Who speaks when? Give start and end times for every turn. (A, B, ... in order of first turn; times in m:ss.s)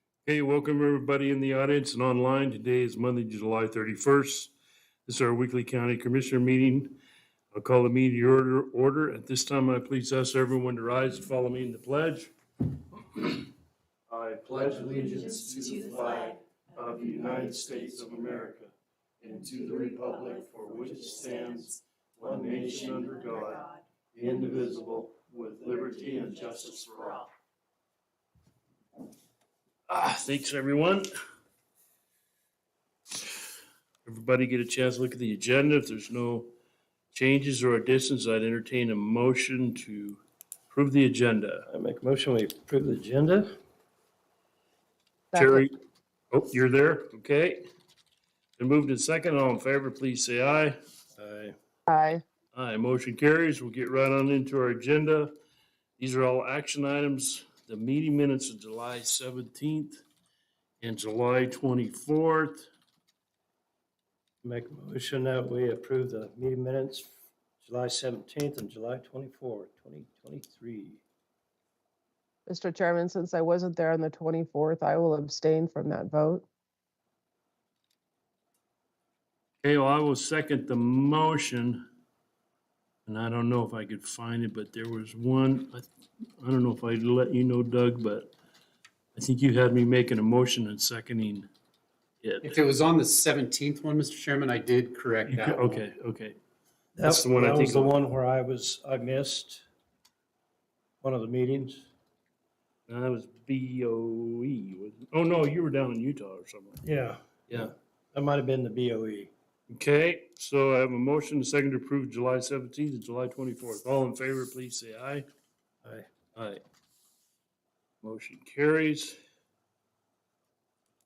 0:00.2-0:04.5 A
0:05.0-0:07.0 A
0:07.5-0:12.3 A
0:14.1-0:16.4 B
0:15.4-0:18.7 A
0:17.4-0:18.0 B
0:19.2-0:27.3 A
0:20.8-0:21.2 B
0:22.2-0:23.1 B
0:24.2-0:25.0 B
0:29.9-0:31.1 A
0:34.0-0:36.5 A
0:37.1-0:41.6 A
0:41.7-0:43.5 B
0:45.3-0:45.6 C
0:45.3-0:45.7 A
0:46.3-0:47.6 A
0:48.6-0:50.8 A
0:51.9-0:52.2 C
0:52.5-0:55.3 A
0:56.0-1:00.0 A
1:00.8-1:02.7 A
1:04.4-1:11.0 B
1:12.4-1:16.4 C
1:19.6-1:21.8 A
1:23.1-1:25.9 A
1:26.4-1:28.3 A
1:29.2-1:31.5 A
1:32.2-1:32.6 A
1:32.4-1:35.8 D
1:35.3-1:36.4 A
1:37.0-1:39.6 B
1:37.0-1:38.0 A
1:41.0-1:41.9 B
1:42.9-1:46.8 A
1:46.8-1:49.3 B
1:49.7-1:55.2 A
1:55.8-1:56.1 B
1:56.3-1:56.6 A
1:58.0-1:59.2 A